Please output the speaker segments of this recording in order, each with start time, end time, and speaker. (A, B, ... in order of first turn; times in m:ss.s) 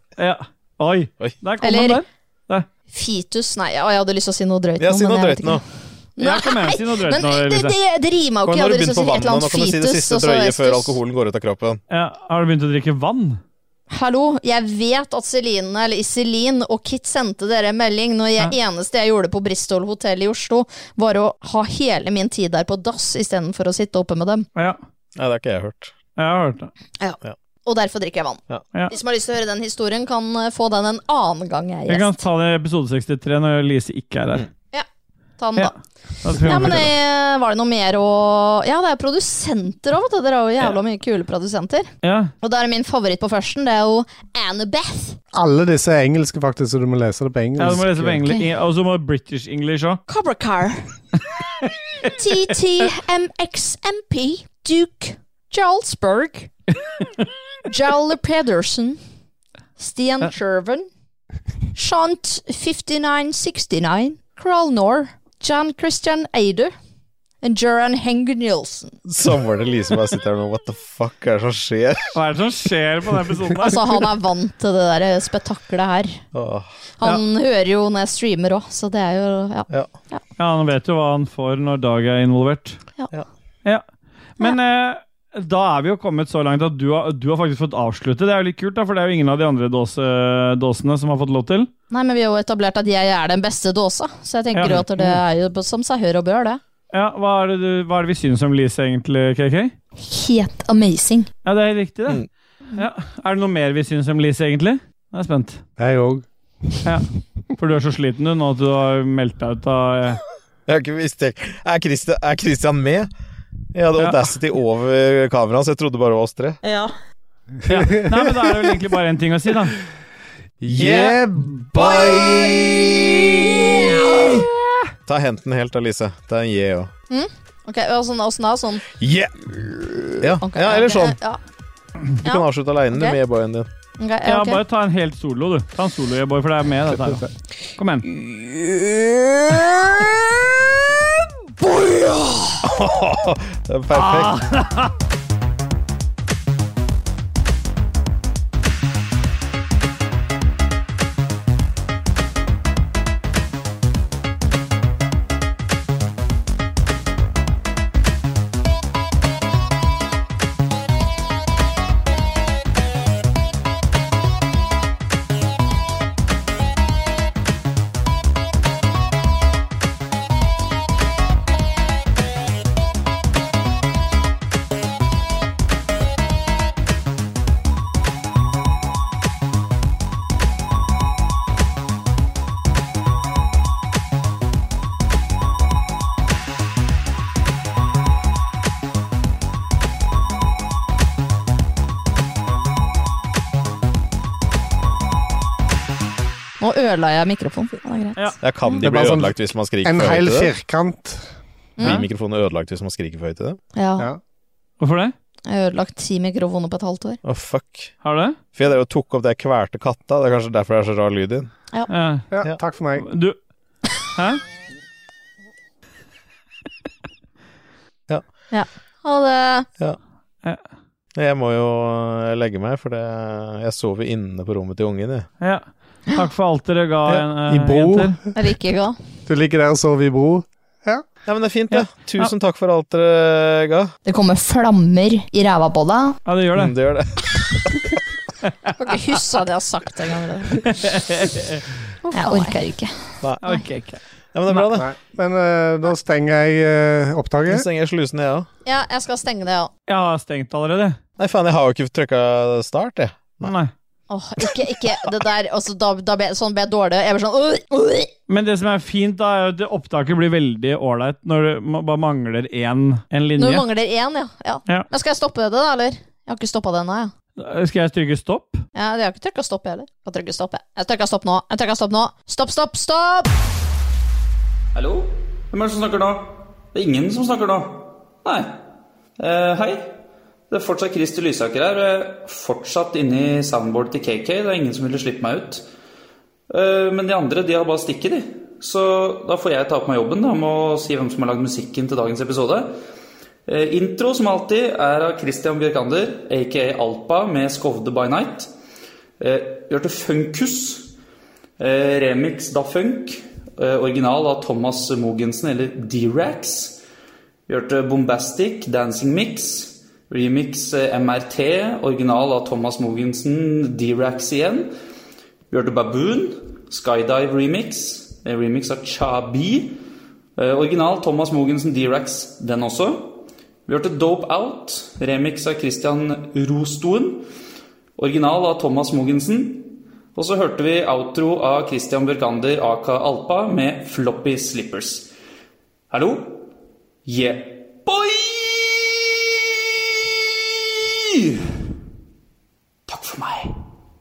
0:00.2-0:02.7 A
0:01.6-0:02.0 B
0:02.9-0:05.6 B
0:04.8-0:05.6 C
0:06.2-0:10.9 B
0:06.2-0:07.8 A
0:08.4-0:11.8 C
0:11.9-0:13.4 A
0:13.9-0:24.5 B
0:25.2-0:25.9 C
0:26.2-0:26.7 A
0:27.0-0:32.2 B
0:31.9-0:34.4 A
0:35.4-0:35.7 B
0:36.2-0:36.9 A
0:36.3-0:41.9 B
0:36.6-0:36.8 C
0:42.0-0:42.3 A
0:42.4-0:45.2 B
0:45.3-0:48.2 D
0:47.6-0:50.0 A
0:50.1-0:50.9 B
0:52.1-0:56.5 B
0:57.7-0:59.0 B
0:59.8-1:00.9 B
1:01.7-1:06.7 B
1:07.4-1:09.0 B
1:09.1-1:12.2 C
1:12.1-1:14.1 A
1:13.6-1:16.2 B
1:16.3-1:16.7 C
1:17.0-1:20.2 B
1:20.4-1:22.8 A
1:24.4-1:31.7 A
1:31.9-1:36.6 B
1:34.5-1:35.1 A
1:36.9-1:39.7 A
1:40.0-1:41.3 B
1:41.4-1:42.2 A
1:42.8-1:45.6 A
1:45.8-1:46.2 D
1:46.8-1:50.2 A
1:50.7-1:53.1 C
1:53.7-1:56.6 C
1:57.7-1:59.8 A
1:57.9-1:58.1 D
2:00.6-2:02.1 D
2:00.7-2:01.2 C
2:01.8-2:03.2 C
2:01.8-2:04.4 B
2:05.1-2:06.9 C
2:07.1-2:08.9 B
2:09.0-2:11.2 C
2:10.4-2:11.4 B
2:12.2-2:13.2 B
2:12.2-2:13.7 C
2:14.0-2:14.6 B
2:14.2-2:18.1 A
2:18.1-2:20.0 C
2:21.7-2:22.4 B
2:22.6-2:24.4 C
2:23.9-2:24.9 A
3:16.6-3:18.8 B
3:18.4-3:20.5 C
3:18.8-3:21.2 D
3:21.8-3:22.0 B
3:21.8-3:23.6 C
3:23.8-3:24.1 B
3:24.8-3:25.1 A
3:25.5-3:27.2 B
3:27.2-3:27.9 C
3:28.0-3:28.4 A
3:28.5-3:31.5 C
3:31.9-3:32.3 A
3:32.3-3:33.1 D
3:33.0-3:33.4 A
3:34.2-3:34.4 A
3:38.5-3:39.7 B
3:41.2-3:45.3 C
3:45.4-3:48.2 A
3:47.5-3:48.2 D
3:48.4-3:49.0 B
3:49.3-3:51.0 D
3:51.3-3:53.9 C
3:51.7-3:52.3 A
3:54.0-3:56.2 B
3:56.3-3:56.7 A
3:56.5-3:57.4 C
3:58.7-4:00.7 B
4:00.6-4:01.6 A
4:02.1-4:03.6 B
4:03.4-4:04.0 A
4:04.3-4:04.9 C
4:04.8-4:07.7 D
4:07.5-4:08.5 C
4:08.6-4:09.7 B
4:09.9-4:11.0 A
4:11.2-4:13.5 C
4:13.4-4:13.7 A
4:14.1-4:18.1 B
4:18.3-4:23.7 A
4:23.4-4:27.1 B
4:27.4-4:28.6 A
4:28.8-4:33.3 B
4:34.7-4:38.6 E
4:39.2-4:39.9 E
4:40.5-4:45.6 E
4:46.5-4:52.8 E
4:53.5-4:58.5 E
4:59.2-5:00.9 E
5:01.6-5:06.8 E
5:07.5-5:14.7 E
5:15.5-5:19.8 E
5:20.4-5:27.3 E
5:28.0-5:35.1 E
5:35.9-5:36.5 E
5:37.0-5:39.1 E
5:40.7-5:41.5 E
5:42.9-5:43.6 E